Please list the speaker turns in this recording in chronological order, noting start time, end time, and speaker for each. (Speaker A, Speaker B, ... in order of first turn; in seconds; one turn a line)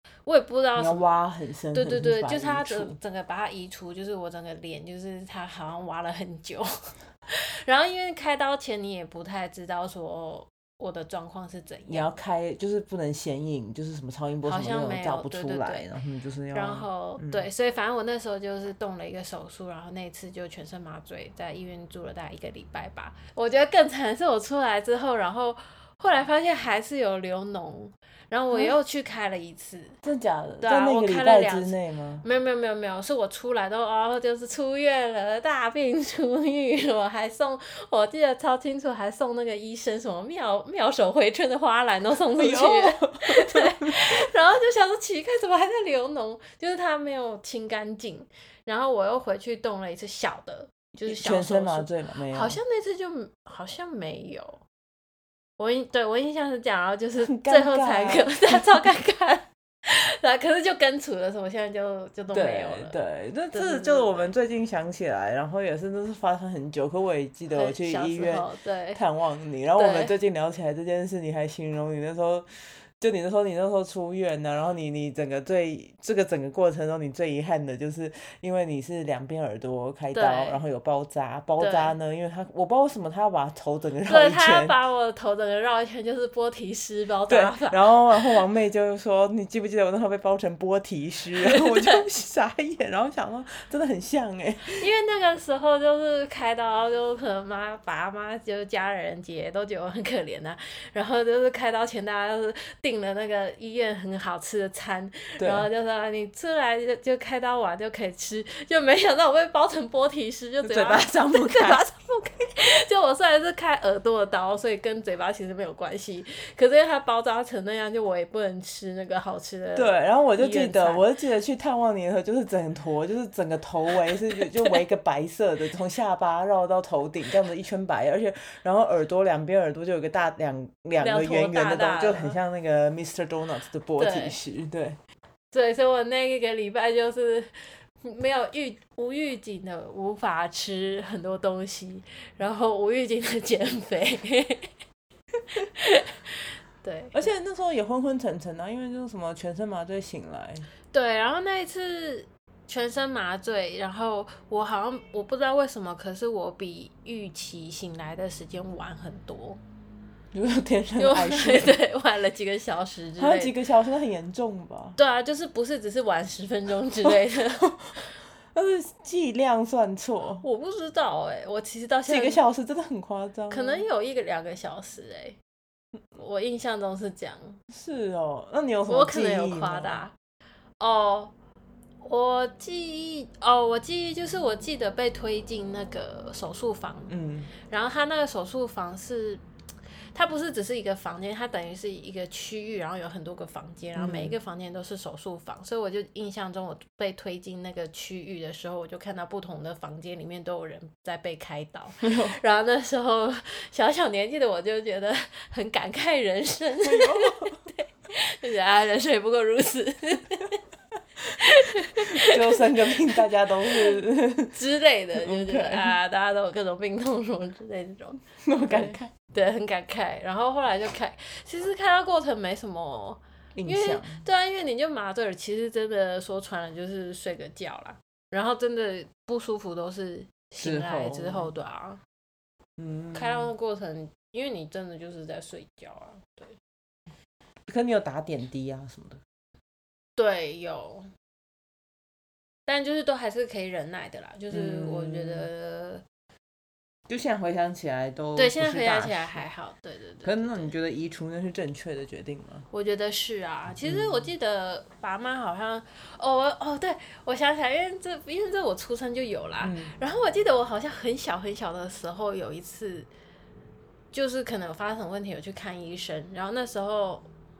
Speaker A: 0.2-1.1
Speaker B: 0.8-3.0
Speaker A: 1.7-12.1
Speaker B: 11.9-17.4
Speaker A: 14.4-15.8
Speaker A: 16.5-30.0
Speaker B: 30.0-32.2
Speaker A: 30.6-54.6
Speaker B: 42.3-44.3
Speaker B: 51.0-52.6
Speaker A: 55.6-63.0
Speaker B: 57.2-58.8
Speaker B: 62.3-84.8
Speaker A: 63.5-64.3
Speaker A: 67.5-69.0
Speaker A: 69.7-70.1
Speaker A: 80.1-80.6
Speaker A: 81.6-81.9
Speaker A: 84.0-88.4
Speaker B: 87.3-94.8
Speaker A: 91.4-92.0
Speaker A: 94.6-121.0
Speaker B: 105.4-105.7
Speaker B: 110.6-111.8
Speaker B: 119.7-135.0
Speaker A: 124.3-124.8
Speaker A: 131.0-132.4
Speaker A: 134.0-134.4
Speaker A: 135.5-144.7
Speaker A: 145.5-147.3
Speaker B: 147.1-150.7
Speaker A: 150.9-159.6
Speaker B: 160.3-161.8
Speaker A: 161.0-163.5
Speaker B: 163.2-165.0
Speaker A: 165.0-168.1
Speaker B: 167.0-168.0
Speaker B: 168.5-170.4
Speaker A: 170.4-172.4
Speaker B: 172.1-173.8
Speaker A: 173.5-175.4
Speaker A: 176.2-177.6
Speaker B: 177.7-180.0
Speaker A: 178.9-180.1
Speaker A: 180.8-181.3
Speaker A: 182.0-189.4
Speaker B: 187.1-187.5
Speaker A: 190.1-210.6
Speaker B: 193.9-194.4
Speaker B: 202.0-202.4
Speaker B: 206.8-207.6
Speaker A: 211.2-214.0
Speaker B: 211.9-214.6
Speaker A: 214.5-232.0
Speaker B: 215.2-216.0
Speaker B: 218.4-219.1
Speaker B: 223.5-224.2
Speaker B: 230.6-231.5
Speaker B: 232.8-233.5
Speaker A: 233.1-236.6
Speaker B: 237.7-239.2
Speaker A: 240.2-241.1
Speaker A: 242.7-246.0
Speaker B: 244.5-245.5
Speaker B: 247.1-249.4
Speaker A: 248.3-250.7
Speaker B: 250.2-252.7
Speaker A: 252.7-263.1
Speaker B: 253.8-254.3
Speaker B: 259.6-259.9
Speaker A: 264.1-267.3